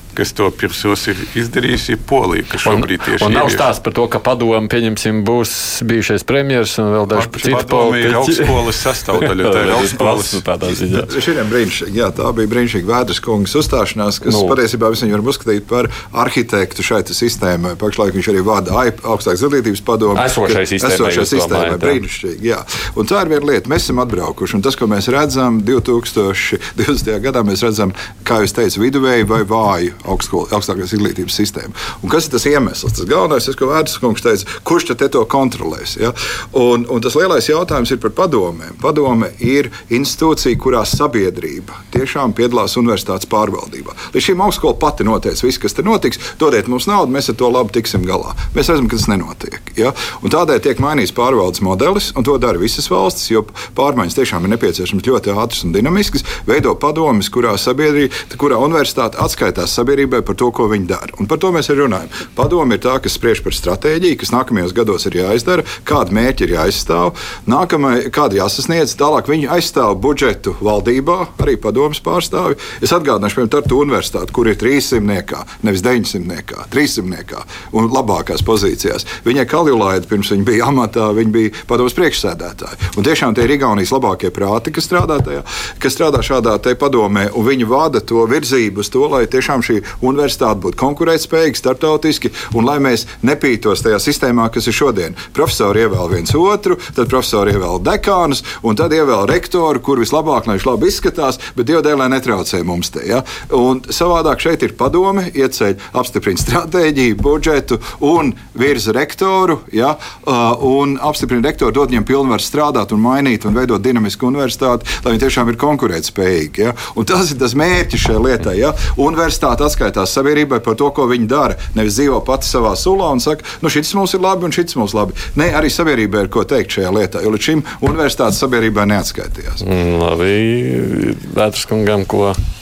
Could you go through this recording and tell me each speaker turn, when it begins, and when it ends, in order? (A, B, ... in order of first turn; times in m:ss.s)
0:00.1-0:03.7 A
0:02.6-0:08.6 B
0:07.1-0:10.4 A
0:09.2-0:11.1 B
0:10.9-2:09.6 C
0:14.3-0:14.6 B
0:20.2-0:22.0 B
2:09.6-2:12.4 B